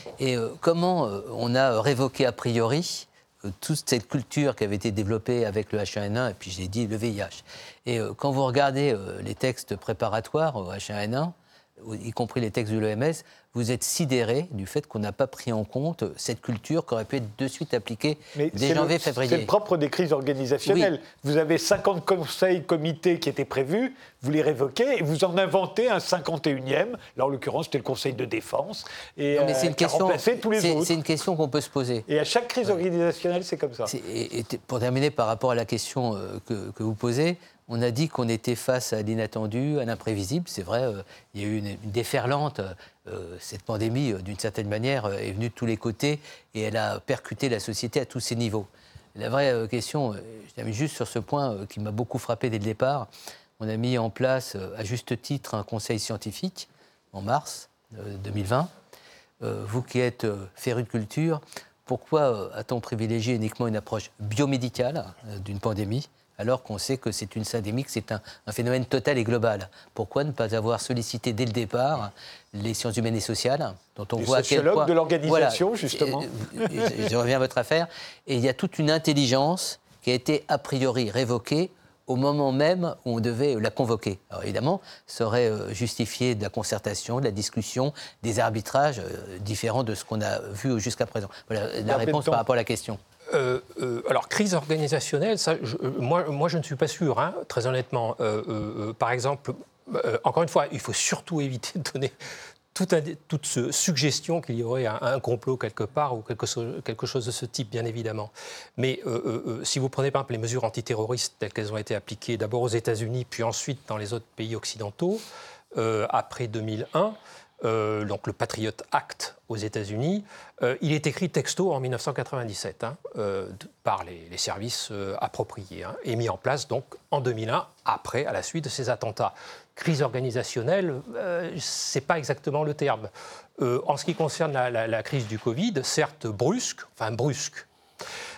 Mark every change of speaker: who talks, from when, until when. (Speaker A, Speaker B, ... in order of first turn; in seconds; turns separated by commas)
Speaker A: 0.2-19.5, Speaker B: 18.3-30.9, Speaker A: 20.6-20.9, Speaker A: 29.3-32.1, Speaker B: 32.1-33.9, Speaker A: 33.9-53.1, Speaker A: 53.6-58.7, Speaker A: 59.4-93.0, Speaker B: 74.2-77.0, Speaker B: 91.8-92.4, Speaker C: 93.3-102.1, Speaker C: 102.7-115.2, Speaker C: 115.7-137.7